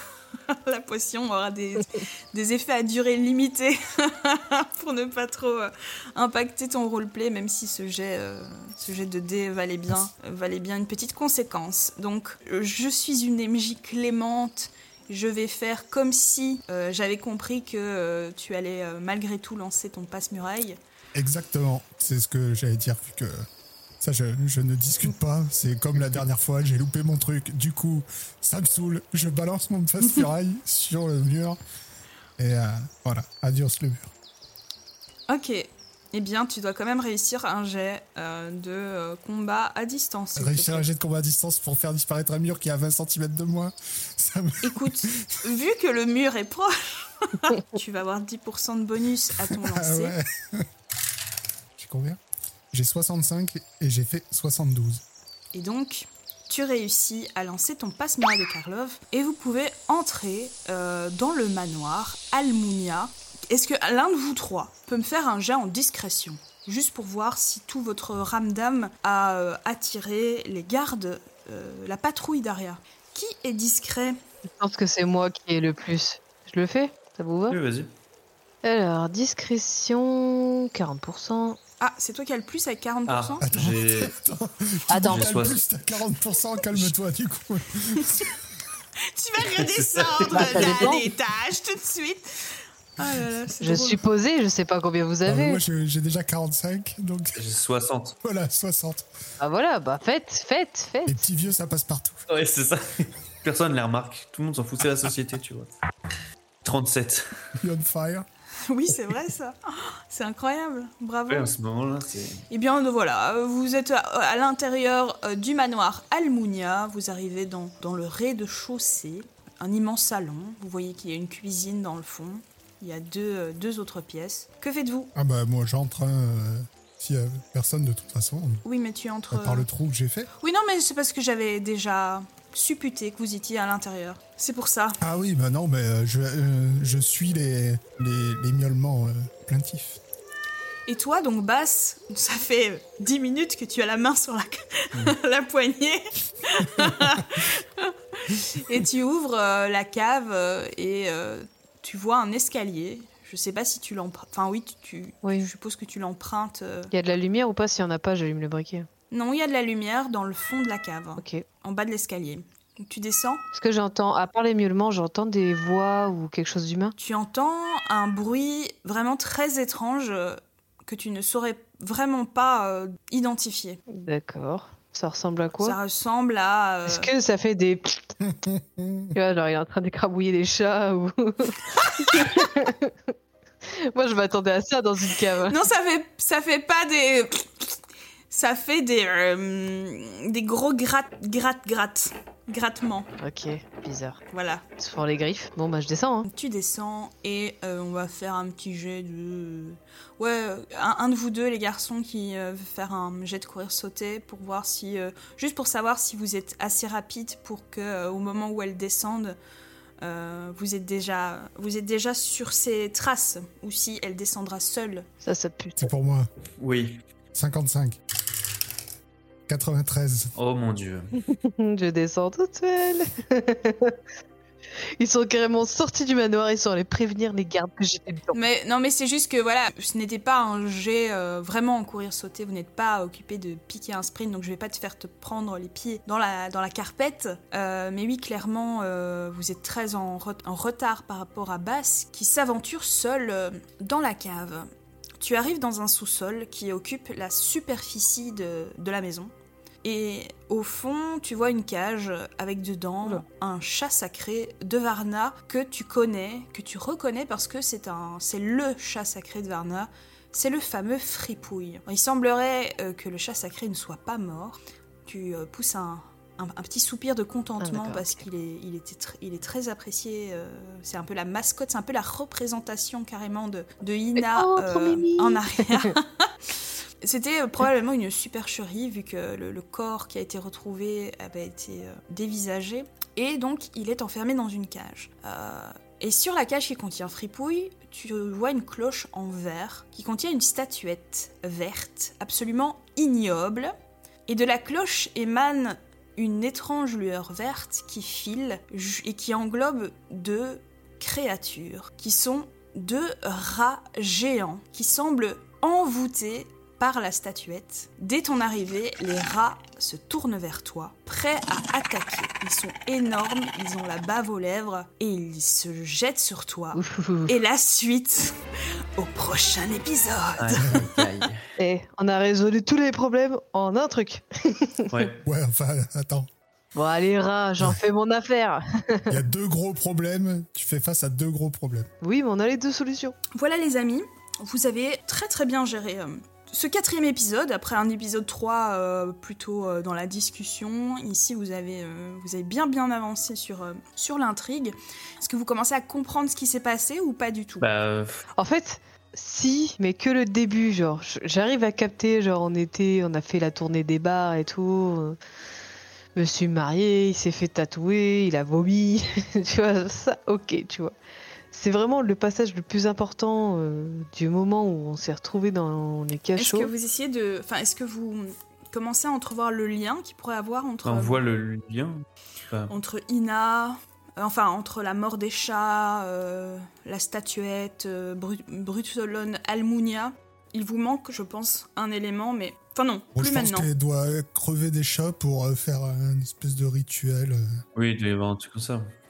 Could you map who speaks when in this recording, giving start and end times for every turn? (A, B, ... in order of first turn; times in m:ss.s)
0:00.5-0:20.8 A
0:21.2-0:23.5 B
0:24.0-0:31.6 B
0:32.4-0:34.1 B
0:35.3-0:40.9 A
0:40.4-0:45.3 B
0:44.6-0:50.2 A
0:49.7-0:50.7 B
0:51.8-0:52.2 B
0:52.7-0:55.0 B
0:55.5-1:14.2 A
1:14.6-1:17.6 C
1:17.5-1:17.9 D
1:18.6-1:21.6 C
1:21.8-1:23.6 A
1:23.1-1:24.2 D
1:23.4-1:28.4 B
1:24.9-1:25.3 C
1:25.0-1:25.6 D
1:26.7-1:27.0 D
1:29.0-1:34.0 A
1:29.6-1:30.9 D
1:30.3-1:31.0 C
1:33.6-1:35.6 C
1:35.3-1:37.4 B
1:37.4-1:38.2 D
1:38.2-1:39.1 B
1:39.4-1:41.3 C
1:41.1-1:42.2 B
1:42.3-1:45.7 D
1:46.6-1:47.6 D
1:47.6-1:48.3 B
1:48.7-1:51.5 A
1:51.3-1:52.4 D
1:52.5-2:05.1 A
2:05.2-2:08.6 B
2:08.6-2:09.7 A
2:09.3-2:10.3 B
2:10.4-2:15.0 A
2:15.0-2:20.0 B
2:20.9-2:36.9 A
2:35.2-2:35.5 C
2:36.9-2:38.9 C
2:39.1-2:43.4 A
2:41.2-2:41.4 C
2:43.5-2:47.0 C
2:47.0-2:53.8 A
2:53.9-2:55.8 C
2:55.6-2:57.1 A
2:56.9-2:58.2 C
2:58.3-2:59.1 B
2:59.1-3:03.1 C
3:01.8-3:02.4 A
3:03.6-3:05.6 C
3:05.4-3:07.8 A
3:08.3-3:13.1 A
3:13.2-3:14.2 C
3:14.3-3:14.6 A
3:14.8-3:16.3 C
3:16.3-3:29.4 A
3:30.0-3:35.1 A
3:35.2-3:35.9 C
3:35.8-3:36.3 B
3:36.6-3:37.0 D
3:37.3-3:38.0 B
3:39.5-3:40.3 B
3:40.4-3:41.2 D
3:41.2-3:44.0 C
3:44.8-3:48.4 C
3:48.3-4:04.7 A
4:05.2-4:09.3 A
4:09.8-4:53.7 A
4:27.6-4:28.2 C
4:34.2-4:36.0 C
4:54.3-5:18.4 A
5:16.7-5:17.4 C
5:19.0-5:20.8 A
5:20.4-5:21.4 D
5:20.6-5:20.9 B
5:21.6-5:25.1 C
5:24.9-5:25.2 D
5:25.2-5:26.3 B
5:26.8-5:29.2 C
5:29.1-5:31.9 B
5:32.0-5:33.2 C
5:33.4-5:47.7 A
5:47.6-5:48.2 D
5:48.4-5:55.2 C
5:56.2-6:01.0 C
6:01.5-6:06.7 C
6:06.4-6:11.2 A
6:10.8-6:12.7 D
6:12.7-6:23.7 A
6:23.2-6:27.6 B
6:27.8-6:28.9 D